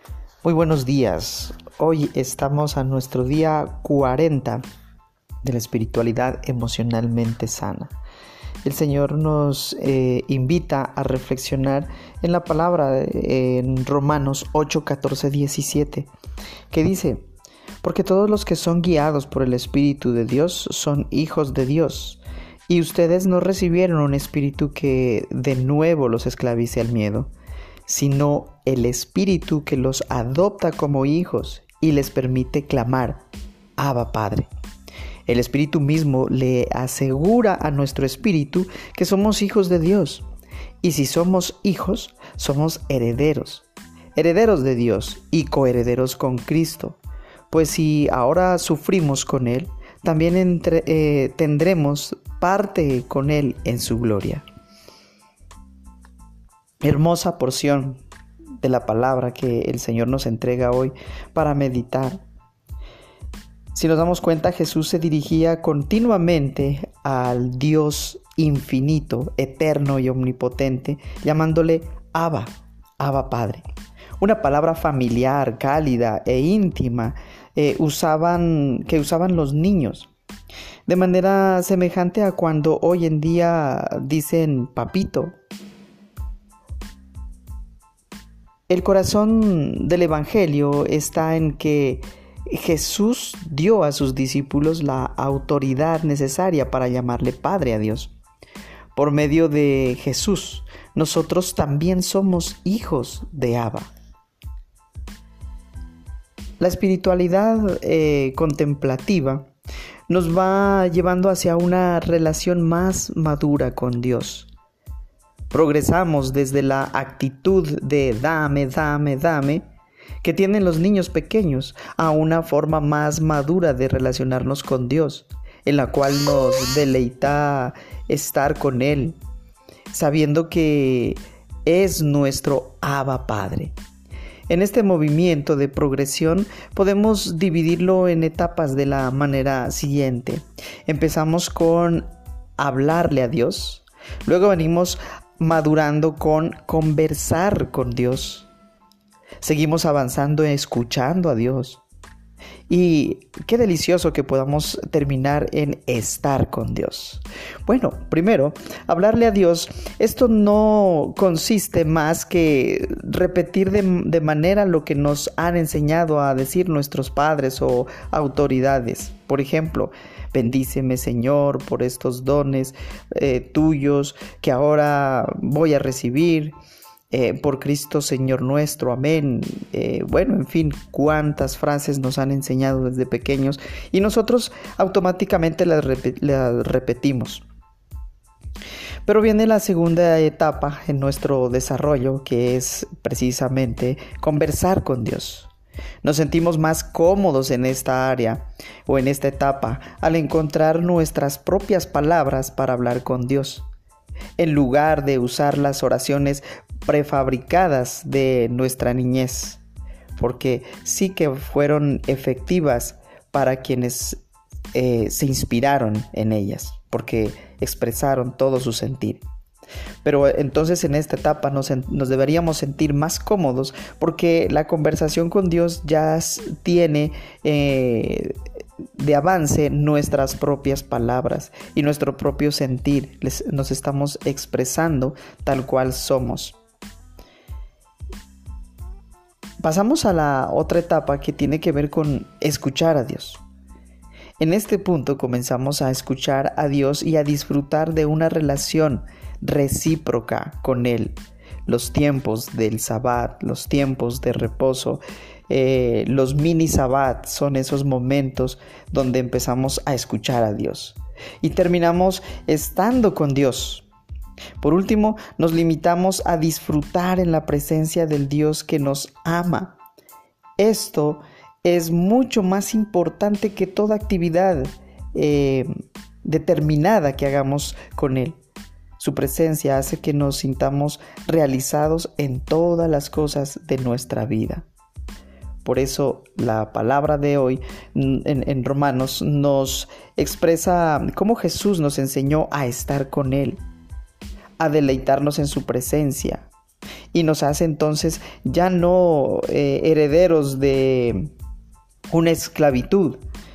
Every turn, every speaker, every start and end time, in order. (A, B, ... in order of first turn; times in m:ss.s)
0:00.4-0:04.6 A
0:05.4-0:07.9 A
0:08.6-0:16.1 A
0:16.7-0:17.2 A
0:17.8-0:27.3 A
0:27.8-0:33.2 A
0:33.8-0:34.5 A
0:35.3-0:40.2 A
0:40.8-0:47.0 A
0:47.5-0:54.4 A
0:56.8-0:58.0 A
0:58.6-1:02.2 A
1:03.7-1:13.6 A
1:14.2-1:20.1 A
1:20.9-1:25.3 A
1:28.7-1:38.1 A
1:38.9-1:43.9 A
1:46.6-1:49.5 A
1:50.1-1:54.5 A
1:55.5-1:59.6 A
2:00.2-2:09.2 A
2:09.9-2:13.7 A
2:14.5-2:28.5 A
2:29.4-2:31.8 A
2:32.7-2:56.5 A
2:57.1-3:07.4 A
3:09.0-3:15.5 A
3:16.0-3:23.6 A
3:24.4-3:29.6 A
3:30.2-3:34.2 A
3:34.7-3:39.2 A
3:40.0-3:48.4 A
3:49.0-3:56.6 A
3:59.6-4:03.4 A
4:04.4-4:23.8 A
4:24.6-4:29.8 A
4:30.6-4:35.7 A
4:36.2-4:38.4 A
4:39.0-4:44.6 A
4:45.6-4:53.6 A
4:54.6-4:56.5 A
4:57.1-5:01.3 A
5:02.1-5:03.2 A